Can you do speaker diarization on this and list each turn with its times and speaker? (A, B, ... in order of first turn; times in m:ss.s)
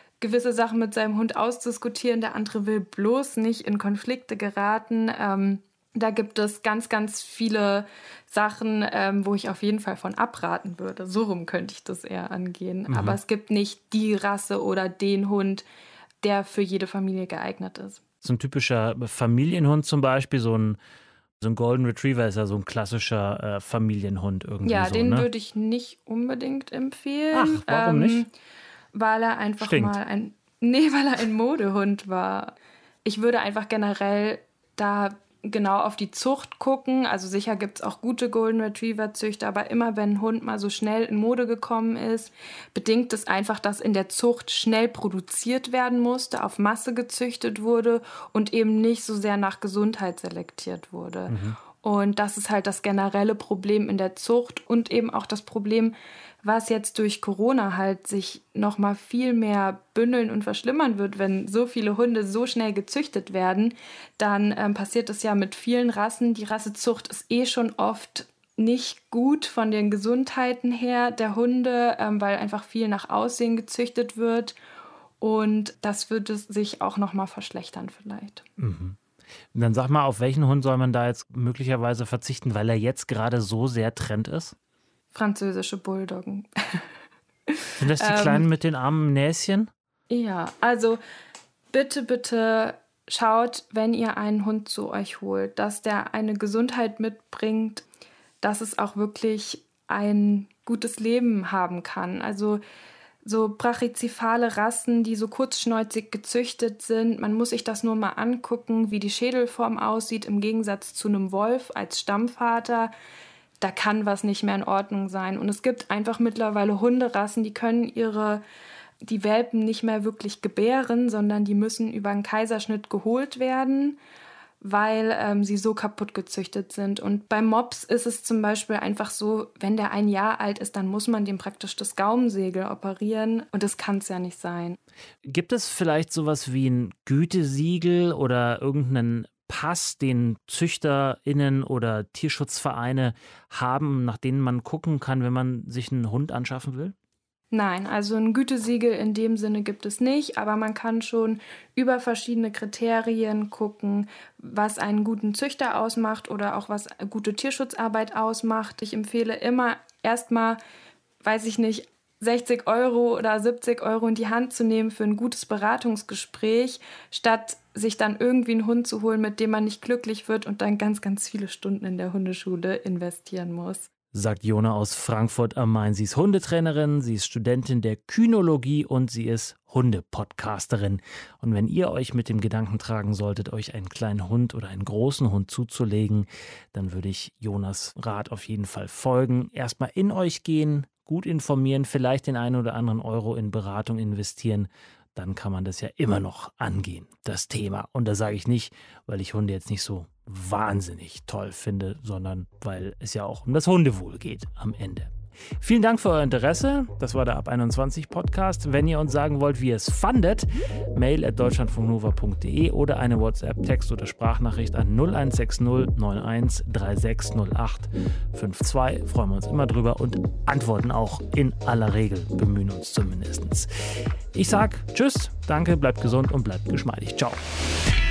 0:00.2-0:15.6 A
0:12.9-0:13.2 B
0:16.2-0:18.0 A
0:18.2-0:20.8 B
0:21.4-0:25.3 B
0:24.6-0:28.3 A
0:27.3-0:28.2 B
0:28.9-1:14.6 A
0:29.6-0:30.0 B
0:51.3-0:51.6 B
1:15.2-1:18.4 A
1:18.6-1:19.0 B
1:19.5-1:24.5 B
1:25.1-1:26.9 A
1:27.5-1:28.4 A
1:27.8-1:29.7 B
1:30.1-1:31.0 A
1:31.7-1:37.8 A
1:38.4-1:42.6 A
1:43.2-1:52.9 A
1:53.6-1:58.4 A
1:59.0-2:04.0 A
2:04.6-2:14.8 A
2:15.2-2:26.9 B
2:27.5-2:40.6 A
2:41.2-2:53.9 A
2:54.1-3:43.7 B
3:44.3-3:47.4 B